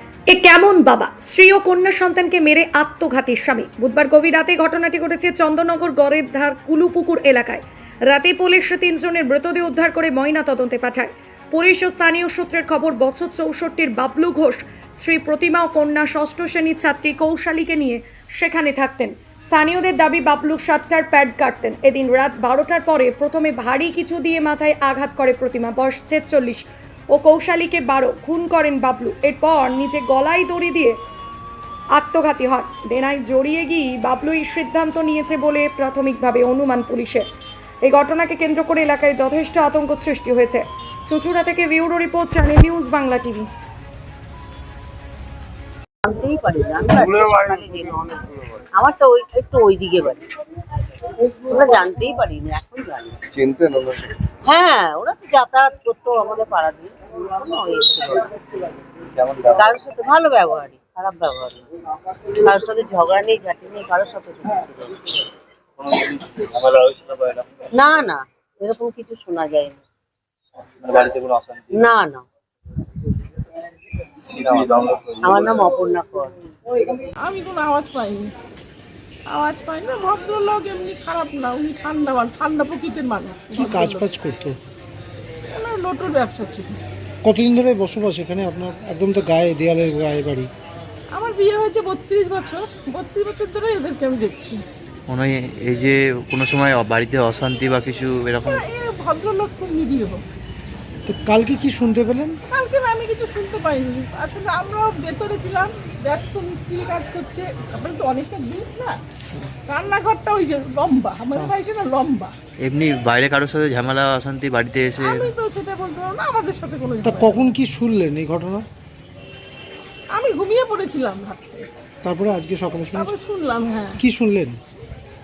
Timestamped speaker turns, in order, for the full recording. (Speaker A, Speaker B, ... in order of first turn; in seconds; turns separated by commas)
Speaker A: 0.3-31.0, Speaker A: 31.9-37.2, Speaker A: 37.8-43.5, Speaker B: 46.0-50.2, Speaker B: 51.2-53.3, Speaker B: 54.4-58.3, Speaker C: 59.2-59.5, Speaker B: 59.5-61.7, Speaker B: 62.3-64.8, Speaker C: 65.8-67.7, Speaker B: 67.7-69.8, Speaker C: 70.8-71.8, Speaker B: 71.7-72.2, Speaker C: 74.3-75.7, Speaker B: 75.2-76.3, Speaker D: 77.2-78.3, Speaker D: 79.3-84.0, Speaker E: 83.5-84.6, Speaker D: 85.5-86.8, Speaker E: 87.2-90.5, Speaker D: 91.1-94.6, Speaker F: 95.1-98.7, Speaker D: 98.4-100.2, Speaker E: 101.0-102.4, Speaker D: 102.5-109.0, Speaker D: 109.7-112.3, Speaker F: 112.6-115.3, Speaker D: 115.0-117.5, Speaker E: 117.0-118.6, Speaker D: 120.1-121.7, Speaker E: 122.0-123.1, Speaker D: 123.0-124.0, Speaker E: 124.0-124.6